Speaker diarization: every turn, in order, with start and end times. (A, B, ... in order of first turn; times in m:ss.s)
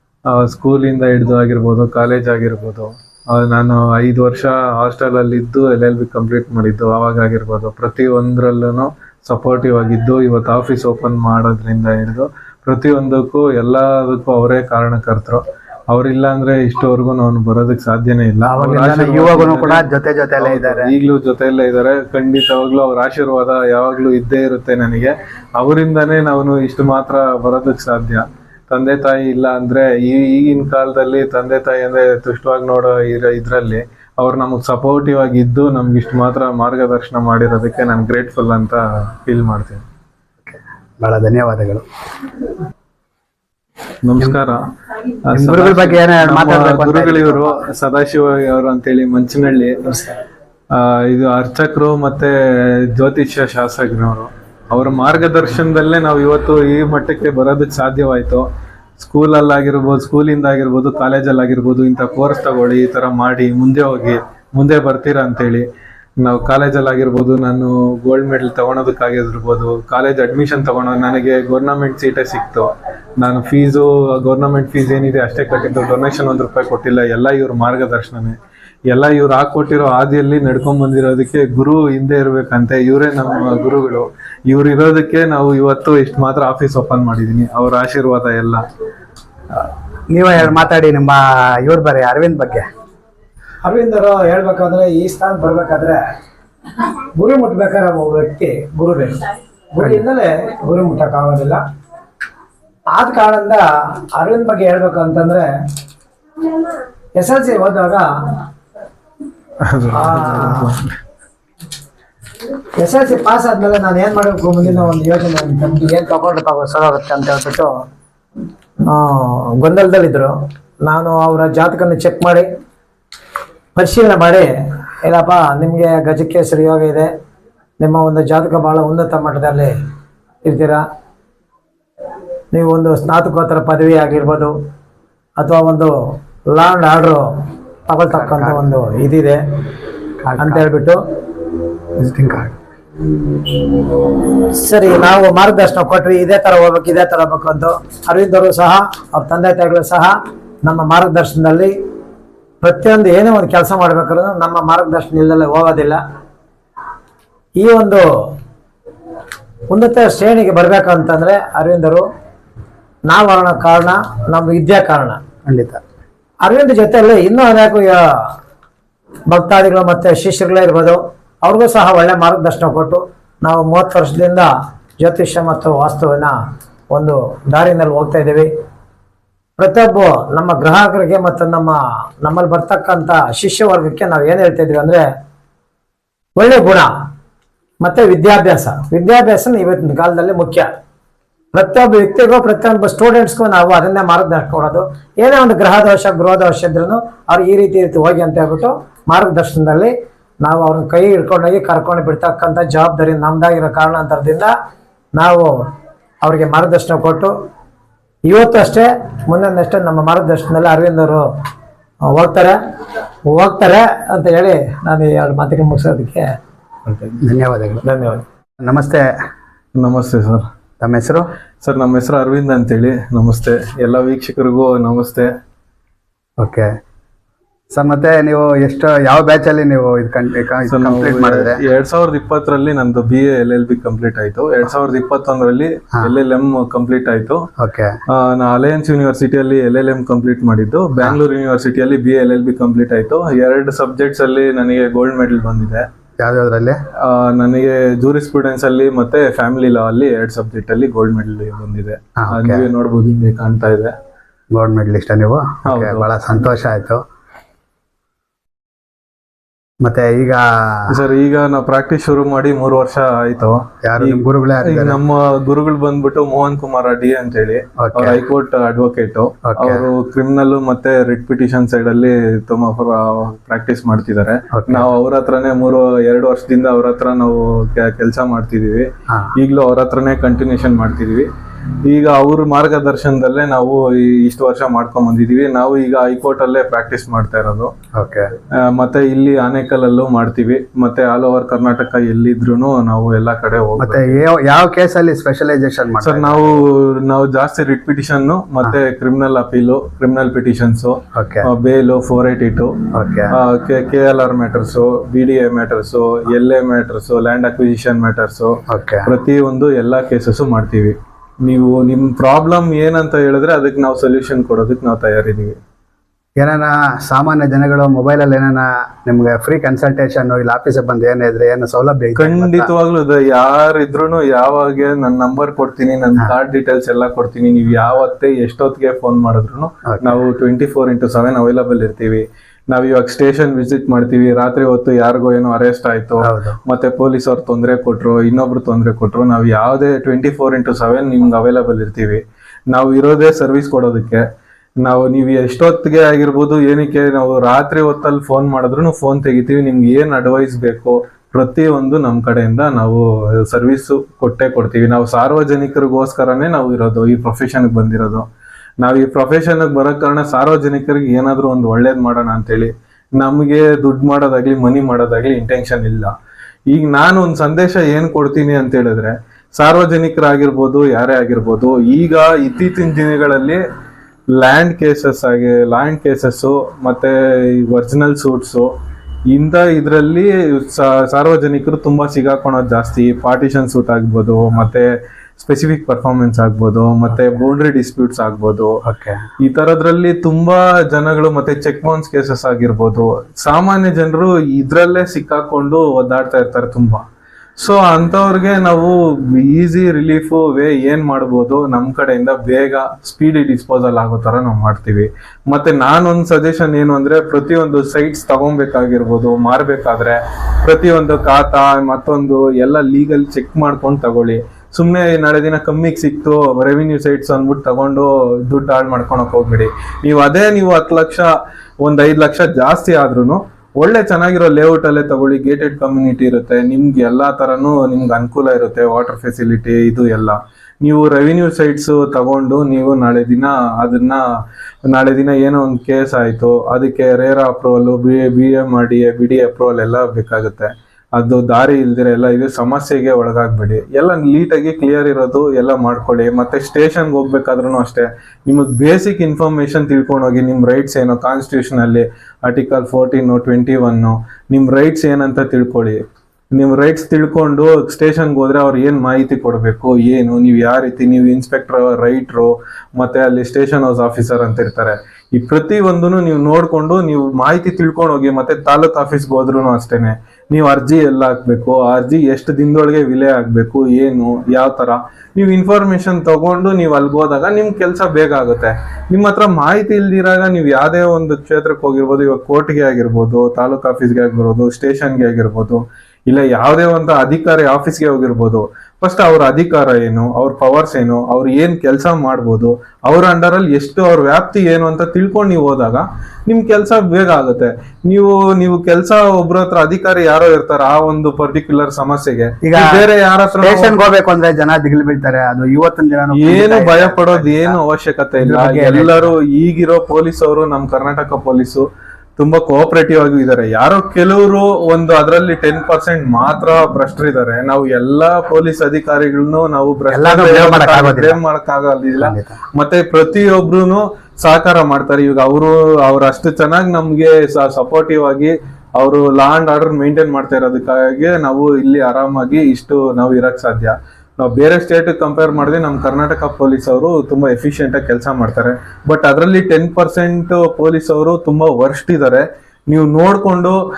0:00.3-0:19.8 A
0:18.5-0:20.9 B
0:20.4-0:39.8 A
0:40.4-0:41.8 B
0:44.0-0:44.6 A
0:45.3-0:50.0 A
0:45.3-0:47.6 B
0:50.7-0:58.5 A
0:59.0-1:05.6 A
1:06.2-1:12.7 A
1:13.2-1:18.4 A
1:18.9-1:28.6 A
1:30.1-1:32.6 B
1:33.6-1:36.0 C
1:37.1-1:41.6 C
1:42.9-1:45.5 C
1:47.2-1:48.0 C
1:49.6-1:51.0 A
1:49.9-1:50.7 C
1:52.8-1:57.7 C
1:58.8-2:02.5 C
2:03.7-2:04.5 C
2:05.0-2:07.1 C
2:07.8-2:09.7 C
2:10.4-2:10.8 C
2:12.5-2:14.5 C
2:15.4-2:16.0 C
2:16.5-2:17.2 C
2:17.8-2:19.4 C
2:18.1-2:18.7 B
2:20.2-2:20.6 B
2:20.4-2:21.0 C
2:22.0-2:22.6 B
2:24.4-2:31.8 C
2:32.6-2:36.0 C
2:37.6-2:38.3 C
2:39.7-2:42.0 C
2:43.1-2:45.2 C
2:45.4-2:45.8 B
2:46.4-2:48.3 C
2:49.3-2:56.4 C
2:56.9-2:58.5 C
2:59.6-3:05.0 C
3:06.4-3:06.9 C
3:07.8-3:10.7 C
3:11.5-3:24.5 C
3:25.1-3:25.7 C
3:26.2-3:27.3 C
3:28.2-3:31.2 C
3:32.1-3:32.6 C
3:33.3-3:36.3 C
3:37.2-3:37.8 B
3:37.8-3:38.2 C
3:38.6-3:39.0 B
3:39.8-3:40.4 A
3:40.8-3:41.3 B
3:41.6-3:45.3 A
3:46.4-3:46.7 B
3:47.7-3:51.6 B
3:50.7-3:57.4 A
3:57.6-3:57.9 B
3:58.1-4:05.8 A
4:06.2-4:06.8 B
4:07.0-4:13.9 A
4:12.2-4:12.7 B
4:14.5-4:17.0 B
4:15.7-4:16.1 A
4:19.8-4:20.9 B
4:20.9-4:41.3 A
4:23.8-4:25.0 B
4:27.8-4:28.2 B
4:29.5-4:29.8 B
4:34.6-4:34.9 B
4:41.8-4:47.7 A
4:48.0-4:48.3 B
4:48.6-4:54.2 A
4:53.8-4:56.6 B
4:56.0-5:02.8 A
5:01.1-5:01.5 B
5:02.9-5:03.3 B
5:03.3-5:08.5 A
5:08.7-5:09.1 B
5:09.0-5:15.6 A
5:16.4-5:22.7 B
5:22.2-5:44.2 A
5:29.9-5:30.2 B
5:36.2-5:36.6 B
5:44.8-5:58.2 A
5:58.8-6:06.1 A
6:06.7-6:13.6 A
6:14.4-6:18.7 A
6:19.3-6:24.9 A
6:25.4-6:28.8 A
6:28.8-6:29.2 B
6:29.4-6:37.0 A
6:37.6-7:01.3 A
7:01.8-7:14.2 A
7:14.9-7:36.0 A
7:36.5-8:24.0 A
8:22.6-8:23.0 B
8:23.6-8:27.8 B
8:26.3-8:31.8 A
8:28.4-8:29.3 B
8:32.4-9:03.8 A
8:40.1-8:41.4 B
8:42.2-8:42.6 B